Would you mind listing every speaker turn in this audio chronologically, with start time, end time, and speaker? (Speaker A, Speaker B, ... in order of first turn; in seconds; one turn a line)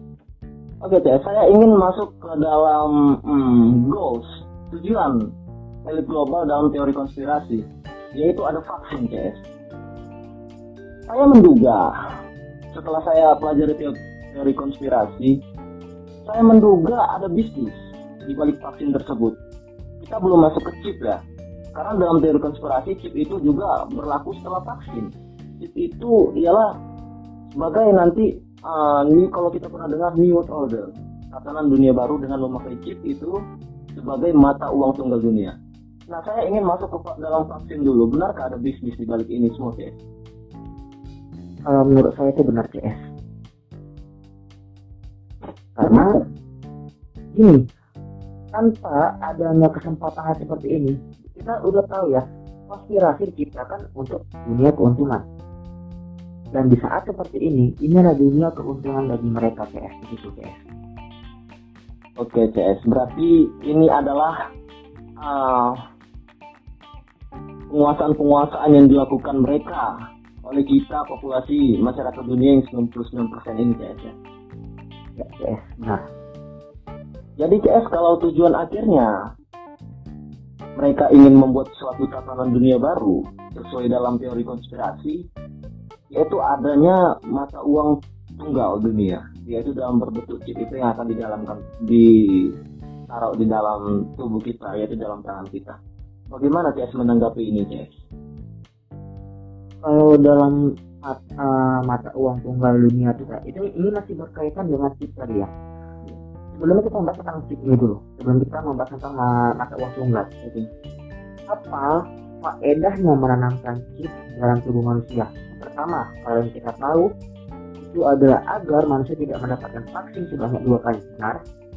Speaker A: 0.8-5.2
Speaker A: 5.8-9.4
Speaker A: 11.1-11.9
Speaker A: 12.7-15.4
Speaker A: 16.2-19.4
Speaker A: 20.0-21.2
Speaker A: 21.7-26.7
Speaker A: 27.5-33.3
Speaker A: 33.9-35.5
Speaker A: 36.1-40.0
Speaker B: 41.6-43.0
Speaker B: 45.8-46.2
Speaker B: 47.3-47.6
Speaker B: 48.5-55.2
Speaker B: 56.5-60.6
Speaker A: 62.2-64.3
Speaker A: 65.2-65.8
Speaker A: 67.7-74.1
Speaker B: 75.2-76.0
Speaker A: 77.4-79.1
Speaker A: 80.8-85.2
Speaker A: 86.1-92.5
Speaker A: 93.1-95.8
Speaker A: 96.3-98.0
Speaker B: 99.8-105.5
Speaker B: 106.5-110.3
Speaker B: 111.5-117.1
Speaker B: 117.8-121.4